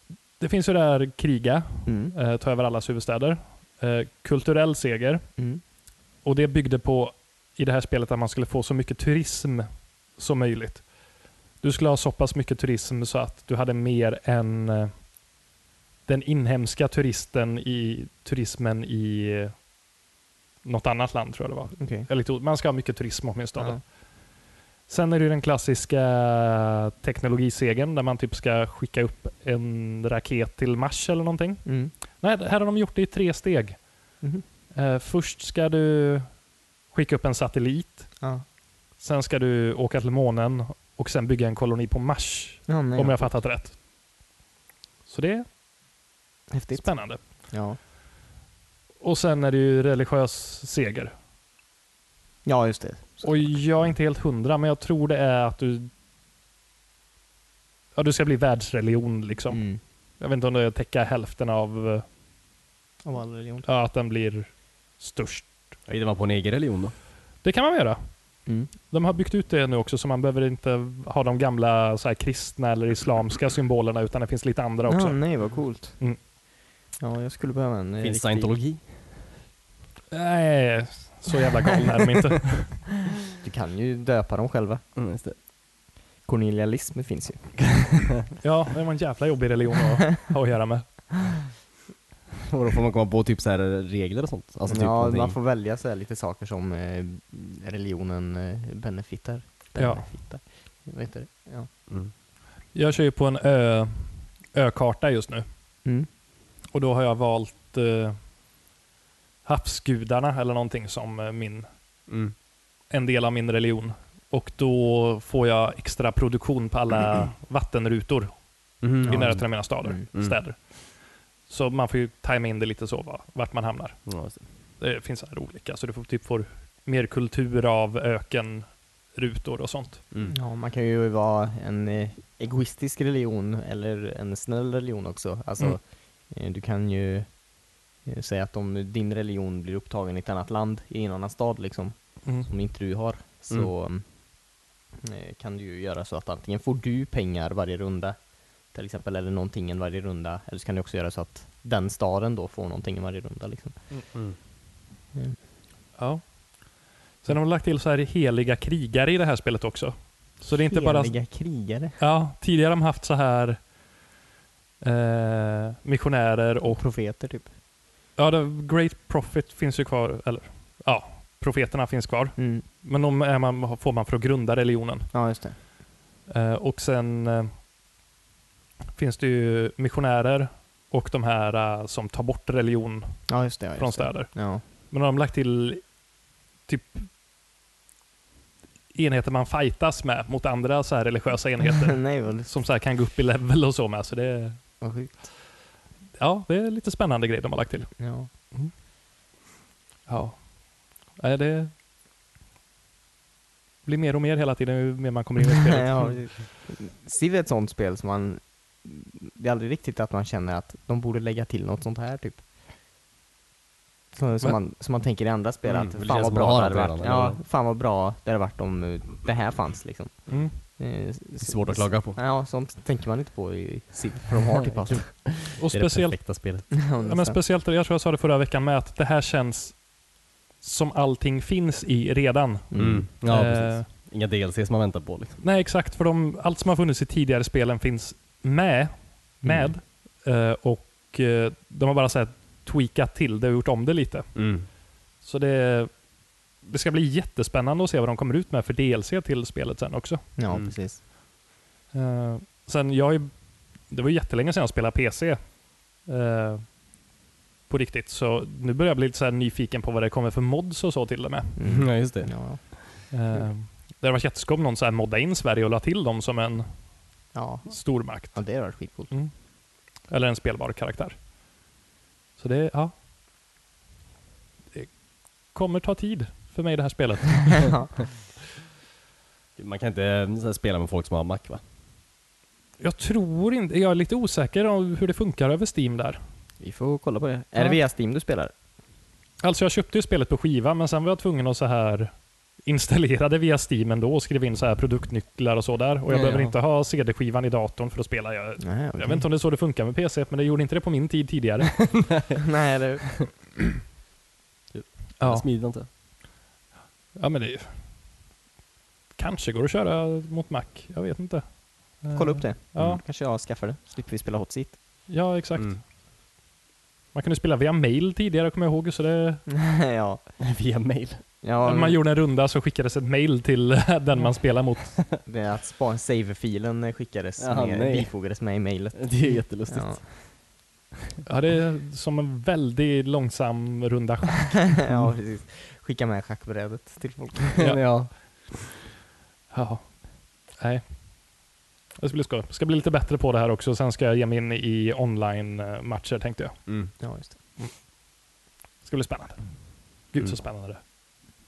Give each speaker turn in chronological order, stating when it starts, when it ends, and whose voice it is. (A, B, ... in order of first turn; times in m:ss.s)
0:00.4-0:05.4 A
0:01.9-0:02.2 B
0:05.4-0:05.6 B
0:06.2-0:11.0 A
0:11.6-0:15.1 A
0:16.1-0:19.7 A
0:20.6-0:24.0 A
0:21.8-0:22.1 B
0:23.6-0:23.8 B
0:24.9-0:34.2 A
0:31.6-0:31.9 B
0:34.7-0:38.3 A
0:38.2-0:38.4 B
0:39.0-0:43.8 A
0:42.7-0:43.4 B
0:45.1-0:45.5 A
0:46.5-0:47.8 B
0:46.7-0:47.2 A
0:49.0-0:51.1 A
0:52.4-0:53.6 B
0:53.2-0:55.9 A
0:58.0-1:02.0 A
0:59.5-0:59.8 B
1:03.0-1:03.7 B
1:03.6-1:05.7 A
1:05.9-1:06.9 C
1:07.4-1:16.2 A
1:08.5-1:08.7 B
1:14.9-1:16.0 B
1:17.0-1:18.6 B
1:18.0-1:18.9 C
1:20.1-1:22.9 A
1:23.4-1:24.8 B
1:25.0-1:25.4 C
1:26.2-1:27.9 B
1:28.4-1:31.3 A
1:32.5-1:35.4 C
1:34.7-1:41.7 B
1:39.8-1:40.1 A
1:41.9-1:42.1 C
1:42.7-1:45.5 A
1:46.7-1:48.2 A
1:49.4-1:51.7 A
1:52.1-1:52.4 C
1:52.9-2:10.0 A
1:58.8-2:00.4 C
1:59.0-2:00.0 B
2:04.1-2:04.4 C
2:10.3-2:33.8 B
2:36.0-2:41.2 A
2:40.7-2:42.0 B
2:42.0-2:43.7 A
2:44.8-2:46.8 A
2:46.7-2:47.5 B
2:48.2-2:55.1 A
2:52.4-2:52.6 B
2:55.1-2:55.6 B
2:56.3-2:57.5 A
2:59.0-3:06.0 A
3:03.3-3:04.6 B
3:06.7-3:07.1 A
3:08.9-3:14.8 A
3:11.8-3:12.5 B
3:14.8-3:15.3 B
3:16.2-3:18.7 A
3:18.0-3:18.3 B
3:20.1-3:21.7 A
3:23.8-3:26.2 A
3:25.5-3:32.5 B
3:34.1-3:45.4 B
3:35.7-3:37.4 C
3:40.3-3:40.6 A
3:41.4-3:42.2 C
3:44.7-3:46.7 C
3:45.6-3:49.9 A
3:46.7-3:47.4 B
3:50.6-3:53.9 A
3:52.7-3:53.1 B
3:52.8-3:55.4 C
3:55.4-4:04.4 A
3:59.4-3:59.7 C
4:04.4-4:04.7 C
4:05.2-4:06.1 A
4:06.6-4:10.2 A
4:10.4-4:11.0 B
4:11.9-4:16.8 A
4:17.7-4:21.6 A
4:21.6-4:23.4 B
4:21.6-4:22.7 C
4:23.1-4:26.9 A
4:27.3-4:29.1 B
4:27.7-4:29.3 A
4:29.9-4:31.2 A
4:32.4-4:32.9 A
4:34.7-4:37.9 A
4:39.6-4:41.6 C
4:42.8-4:46.2 A
4:46.6-4:48.5 B
4:49.4-5:02.1 A
4:56.1-4:56.6 C
4:58.6-4:59.3 B
5:02.4-5:03.4 B
5:04.7-5:05.9 C
5:05.2-5:05.5 A
5:07.2-5:08.0 A
5:09.2-5:13.0 A
5:12.1-5:14.8 B
5:12.8-5:13.0 C
5:15.1-5:15.8 A
5:17.1-5:19.5 A
5:19.5-5:20.2 B
5:20.4-5:21.3 C
5:21.4-5:22.0 B
5:21.6-5:25.0 A
5:25.2-5:30.3 B
5:27.4-5:28.4 C
5:28.9-5:30.1 C
5:31.2-5:34.9 A
5:34.8-5:37.7 B
5:37.6-5:38.6 C
5:39.5-5:41.4 A
5:42.0-5:47.0 A
5:46.7-5:46.9 C
5:47.0-5:47.4 B
5:48.8-5:50.8 A